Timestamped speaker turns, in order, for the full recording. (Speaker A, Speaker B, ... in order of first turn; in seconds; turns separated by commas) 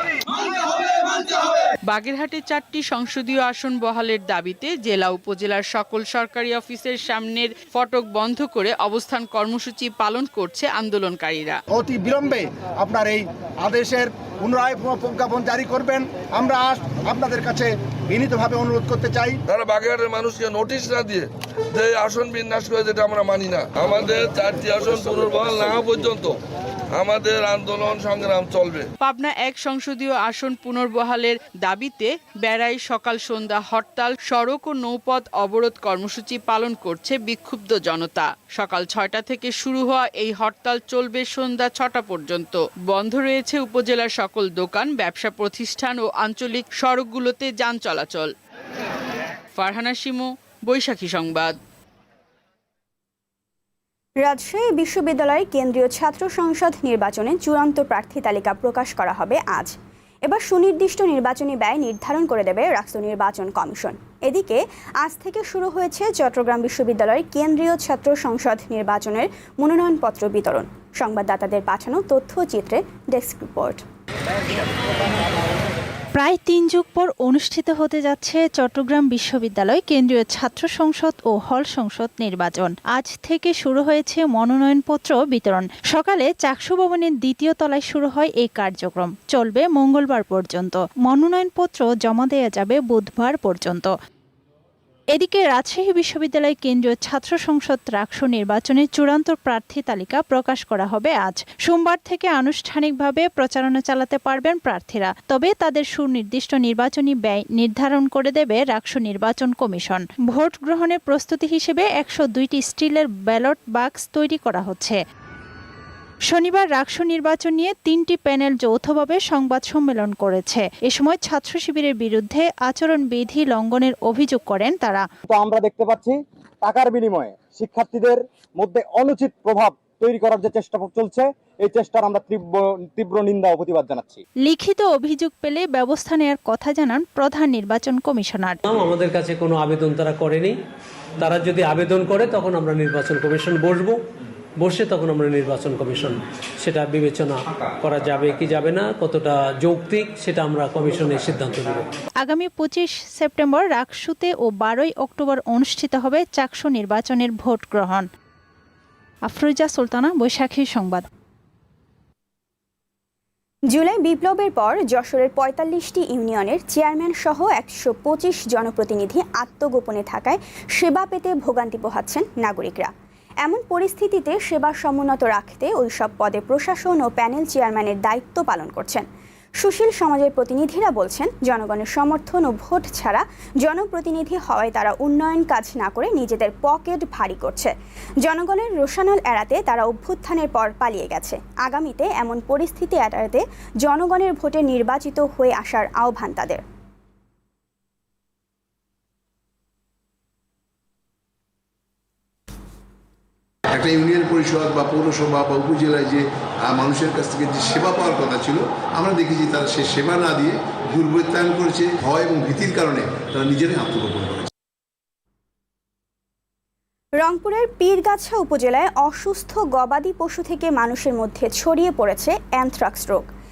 Speaker A: 1.9-11.6, Speaker B: 11.7-19.4, Speaker C: 19.5-26.3, Speaker C: 26.9-28.9, Speaker A: 29.0-48.3, Speaker A: 49.6-51.5, Speaker D: 54.2-59.8, Speaker D: 60.2-73.8, Speaker E: 76.2-93.9, Speaker E: 95.1-115.0, Speaker E: 116.3-125.0, Speaker F: 125.3-134.2, Speaker E: 134.4-138.6, Speaker G: 138.7-140.5, Speaker G: 141.2-143.9, Speaker G: 144.6-151.8, Speaker E: 152.2-158.1, Speaker E: 159.3-161.0, Speaker D: 163.7-172.9, Speaker D: 173.4-179.1, Speaker D: 179.6-187.7, Speaker D: 188.2-196.6, Speaker H: 203.8-214.5, Speaker D: 217.2-223.2